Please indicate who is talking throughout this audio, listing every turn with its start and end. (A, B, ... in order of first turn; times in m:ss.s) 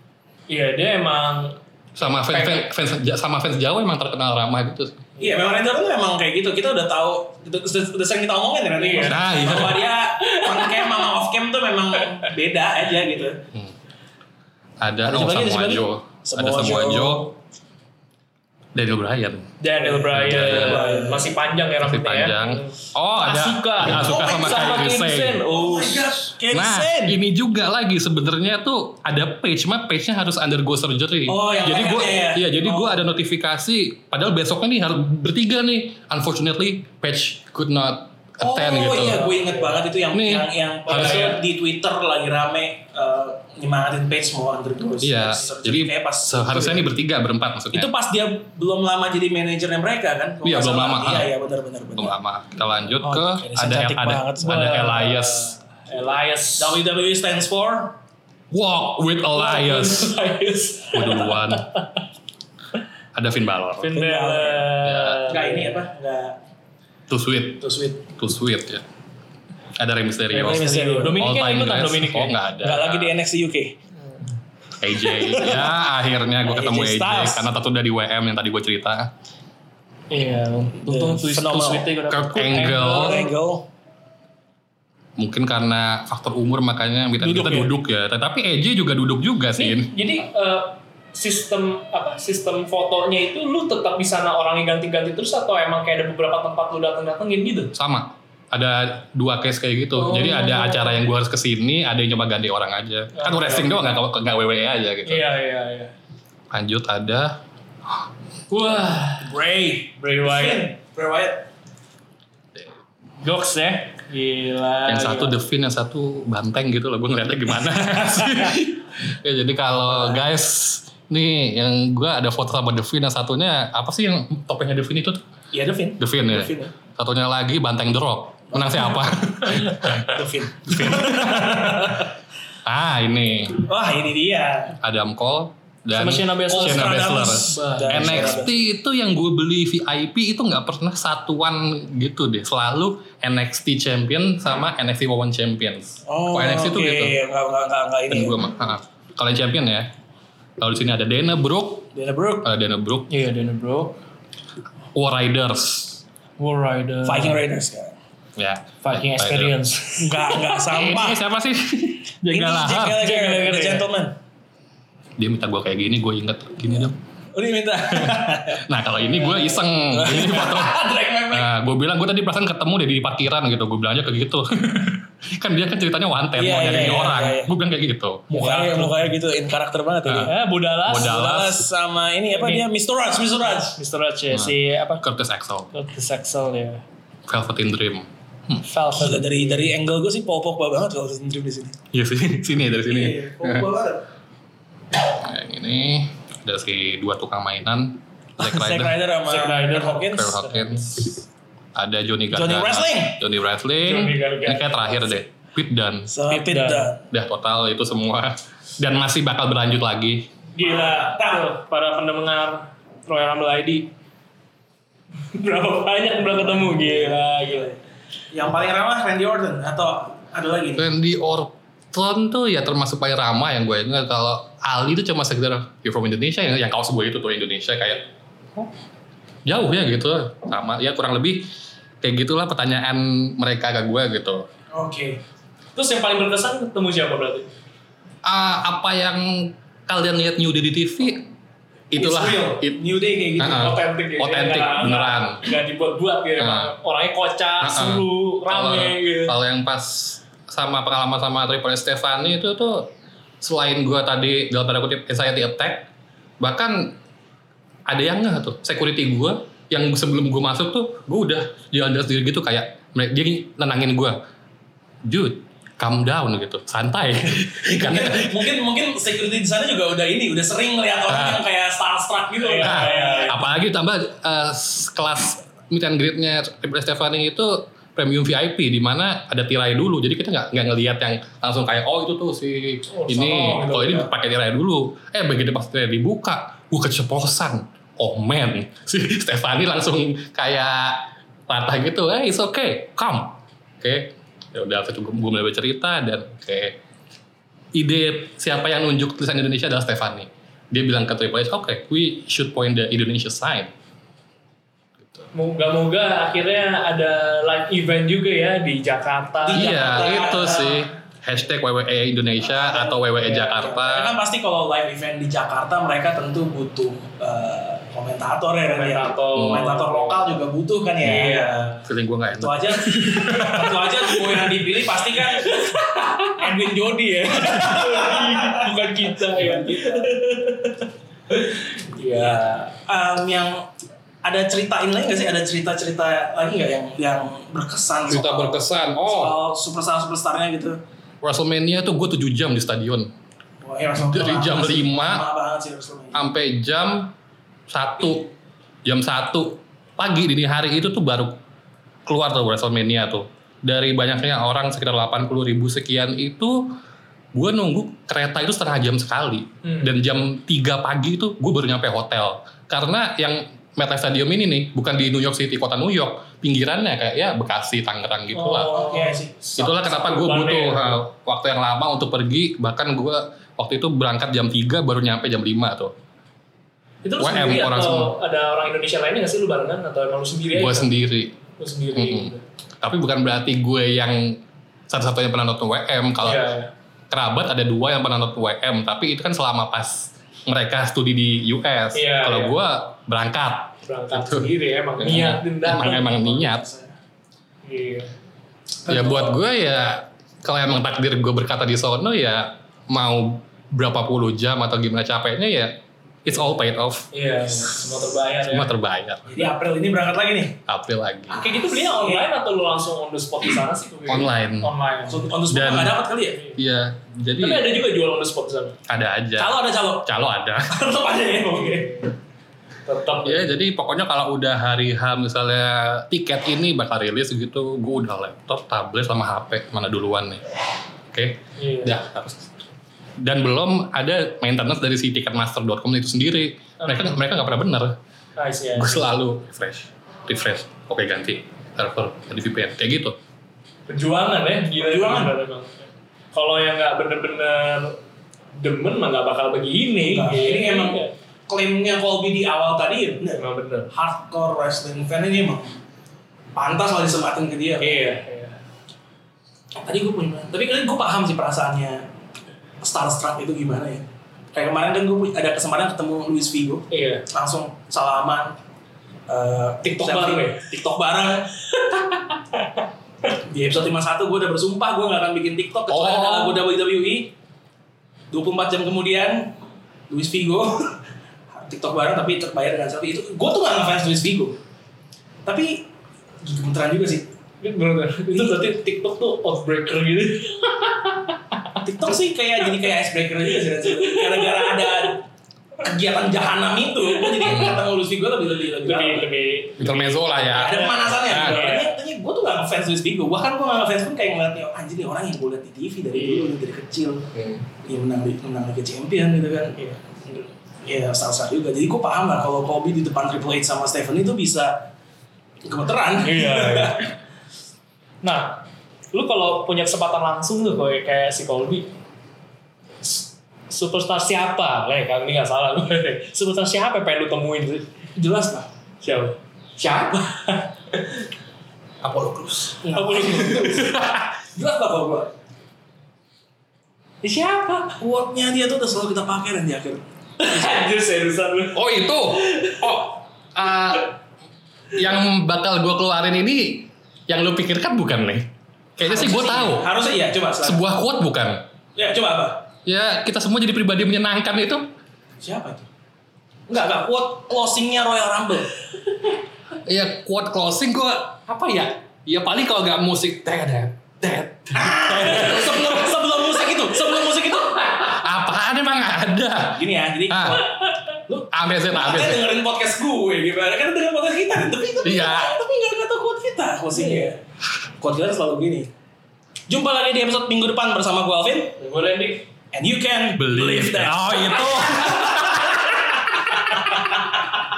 0:00.5-0:02.7 A
0:02.0-0:05.0 B
0:05.2-0:05.4 A
0:05.2-0:13.4 C
0:08.8-0:09.6 A
0:09.0-0:09.8 B
0:10.2-0:11.0 A
0:12.0-0:12.3 A
0:14.8-0:17.3 B
0:15.0-0:17.3 C
0:18.8-0:19.5 B
0:19.6-0:26.3 A
0:19.8-0:21.4 C
0:20.1-0:20.9 B
0:21.8-0:25.4 B
0:23.8-0:24.9 C
0:25.5-0:27.2 C
0:26.5-0:39.3 B
0:31.3-0:33.1 C
0:38.4-0:46.9 C
0:39.0-0:39.8 A
0:40.1-0:41.3 B
0:40.9-0:41.4 A
0:45.0-0:47.9 B
0:47.7-0:52.2 C
0:50.4-0:51.3 B
0:52.0-0:55.6 B
0:53.0-0:54.7 C
0:54.4-0:56.8 A
0:56.6-0:58.0 C
0:58.5-1:00.1 B
0:59.4-1:02.0 A
1:00.9-1:01.7 B
1:03.1-1:03.9 B
1:03.8-1:05.9 A
1:03.9-1:04.7 C
1:04.8-1:05.2 B
1:05.3-1:06.4 C
1:07.1-1:08.8 B
1:07.6-1:08.0 C
1:09.8-1:13.2 B
1:10.3-1:12.4 A
1:10.4-1:11.3 C
1:12.6-1:13.8 C
1:14.8-1:19.1 B
1:15.0-1:15.8 C
1:16.4-1:17.5 C
1:20.1-1:23.3 A
1:20.8-1:21.9 C
1:22.1-1:23.2 B
1:22.7-1:23.6 C
1:25.2-1:29.9 B
1:27.2-1:27.7 C
1:29.6-1:37.8 A
1:37.7-1:45.3 B
1:40.0-1:41.0 A
1:43.1-1:44.0 A
1:45.0-1:45.9 A
1:46.5-1:47.4 B
1:48.5-1:49.3 A
1:49.2-1:51.5 C
1:50.0-1:50.7 A
1:53.2-1:55.4 A
1:54.9-2:05.2 B
1:59.9-2:00.2 C
2:05.5-2:06.7 C
2:06.0-2:12.1 B
2:08.5-2:09.0 C
2:09.5-2:10.0 A
2:09.9-2:12.1 C
2:12.6-2:13.7 B
2:13.6-2:14.8 C
2:14.8-2:27.2 B
2:15.9-2:18.4 A
2:16.5-2:18.5 C
2:26.1-2:28.4 C
2:28.1-2:29.9 B
2:30.6-2:31.9 B
2:31.9-2:32.5 C
2:32.4-2:33.1 B
2:33.1-2:34.0 A
2:34.9-2:36.0 B
2:36.4-2:37.4 A
2:37.0-2:38.0 C
2:38.4-2:39.6 B
2:38.8-2:40.6 A
2:40.0-2:41.2 C
2:40.7-2:43.0 B
2:42.3-2:44.2 C
2:42.9-2:43.9 A
2:45.2-2:47.0 B
2:47.3-2:51.5 C
2:47.9-2:58.3 B
2:56.4-2:57.5 C
2:58.3-2:59.1 A
2:58.3-3:00.4 C
3:00.1-3:00.3 B
3:00.2-3:01.4 A
3:00.9-3:01.7 B
3:00.9-3:03.8 C
3:02.3-3:02.7 A
3:03.7-3:05.0 A
3:04.3-3:05.7 B
3:05.7-3:06.8 A
3:07.3-3:08.6 B
3:08.6-3:09.7 A
3:09.0-3:11.8 C
3:11.9-3:13.7 B
3:12.9-3:14.1 C
3:15.0-3:19.0 B
3:18.4-3:20.4 C
3:19.2-3:21.0 A
3:20.1-3:21.1 B
3:21.8-3:26.1 B
3:22.3-3:23.2 C
3:23.8-3:25.0 A
3:26.1-3:27.0 C
3:26.3-3:26.9 A
3:27.1-3:30.3 B
3:30.5-3:33.9 A
3:30.6-3:31.5 C
3:35.3-3:37.7 A
3:36.2-3:37.8 C
3:38.3-3:40.9 C
3:40.8-3:48.0 B
3:49.4-3:51.5 B
3:52.0-3:54.5 B
3:54.7-3:55.2 C
3:55.8-3:57.5 A
3:58.2-4:01.3 B
4:01.9-4:02.8 B
4:02.0-4:02.6 A
4:02.6-4:03.8 C
4:03.4-4:05.4 B
4:03.4-4:09.4 A
4:06.4-4:06.7 B
4:07.6-4:17.0 B
4:17.9-4:24.2 B
4:25.0-4:28.5 B
4:27.6-4:33.4 C
4:31.1-4:31.4 B
4:32.4-4:33.4 A
4:32.6-4:56.8 B
4:42.9-4:44.1 A
4:57.7-5:03.7 B
5:05.3-5:10.2 A
5:09.4-5:10.9 C
5:09.6-5:14.2 B
5:12.4-5:21.8 C
5:13.2-5:13.6 A
5:18.7-5:20.4 A
5:19.3-5:19.7 B
5:21.0-5:21.8 A
5:21.8-5:23.6 B
5:22.4-5:30.2 C
5:23.1-5:24.6 A
5:25.1-5:26.5 A
5:27.3-5:32.7 A
5:32.8-5:33.7 C
5:34.2-5:40.8 C
5:38.1-5:39.4 B
5:41.2-5:43.1 B
5:43.6-5:46.2 C
5:44.0-5:45.2 B
5:46.1-5:47.1 B
5:47.7-5:48.3 B
5:48.8-5:51.4 B
5:52.1-5:56.8 B
5:57.3-6:08.8 B
5:59.6-5:59.9 A
6:08.3-6:11.0 A
6:08.7-6:09.4 C
6:09.6-6:15.9 B
6:17.0-6:20.9 A
6:17.2-6:18.1 B
6:20.5-6:21.4 B
6:21.6-6:22.4 A
6:21.9-6:26.5 B
6:26.2-6:26.7 A
6:27.1-6:36.7 B
6:31.9-6:32.6 A
6:33.8-6:36.1 A
6:35.7-6:37.0 C
6:37.7-6:38.1 A
6:38.9-6:39.4 A
6:38.9-6:45.7 B
6:46.2-6:47.1 B
6:47.1-6:48.7 A
6:48.5-6:49.3 B
6:49.3-6:50.6 C
6:50.7-6:51.4 B
6:51.3-6:55.3 A
6:51.7-6:52.2 C
6:54.1-6:54.7 B
6:55.1-6:56.4 C
6:55.5-6:56.0 B
6:56.6-6:57.8 B
6:57.4-6:58.8 A
6:58.9-7:00.8 B
6:59.4-7:00.1 C
7:00.7-7:02.0 C
7:01.4-7:02.1 A
7:02.9-7:03.5 A
7:03.2-7:10.4 B
7:11.1-7:12.5 B
7:11.6-7:12.0 A
7:13.2-7:18.0 B
7:16.8-7:17.2 A
7:18.4-7:19.1 A
7:18.8-7:23.2 B
7:23.9-7:28.0 A
7:24.8-7:25.3 C
7:28.6-7:31.1 A
7:30.0-7:35.8 C
7:33.3-7:33.9 A
7:36.6-7:38.1 C
7:37.8-7:38.6 A
7:39.8-7:42.0 C
7:42.8-7:48.6 C
7:46.9-7:47.3 A
7:49.3-7:51.5 C
7:49.8-7:50.7 A
7:51.7-7:52.9 A
7:53.4-7:57.3 C
7:55.9-7:56.6 B
7:58.3-7:59.5 C
8:00.1-8:01.0 C
8:01.6-8:04.6 C
8:05.4-8:05.9 C
8:06.4-8:07.3 C
8:07.6-8:11.8 A
8:11.8-8:15.2 C
8:13.6-8:15.2 A
8:15.8-8:19.3 C
8:17.1-8:17.8 A
8:17.5-8:17.8 B
8:18.8-8:22.0 A
8:19.8-8:21.6 B
8:20.5-8:34.9 C
8:26.1-8:26.6 A
8:35.6-8:37.1 C
8:36.2-8:37.0 A
8:38.2-8:41.9 A
8:43.0-8:48.1 A
8:48.2-8:48.7 C
8:49.0-8:51.3 A
8:52.0-8:52.8 B
8:52.8-8:55.3 C
8:52.9-8:54.2 A
8:57.2-8:58.0 A
8:58.0-9:00.0 C
9:00.4-9:03.1 A
9:01.7-9:04.2 B
9:05.0-9:09.9 B
9:09.0-9:10.8 C
9:10.6-9:11.6 B
9:12.0-9:12.7 C
9:12.9-9:14.9 B
9:15.4-9:15.8 C
9:16.7-9:18.7 C
9:19.9-9:26.2 B
9:24.7-9:28.2 C
9:27.9-9:30.6 B
9:29.7-9:30.7 C
9:31.3-9:37.4 C
9:31.5-9:32.5 B
9:35.0-9:35.6 B
9:36.9-9:37.3 A
9:38.0-9:38.9 C
9:39.7-9:41.8 C
9:41.8-9:42.5 A
9:42.7-9:46.2 C
9:43.4-9:45.8 B
9:46.6-9:47.1 A
9:46.9-9:47.2 C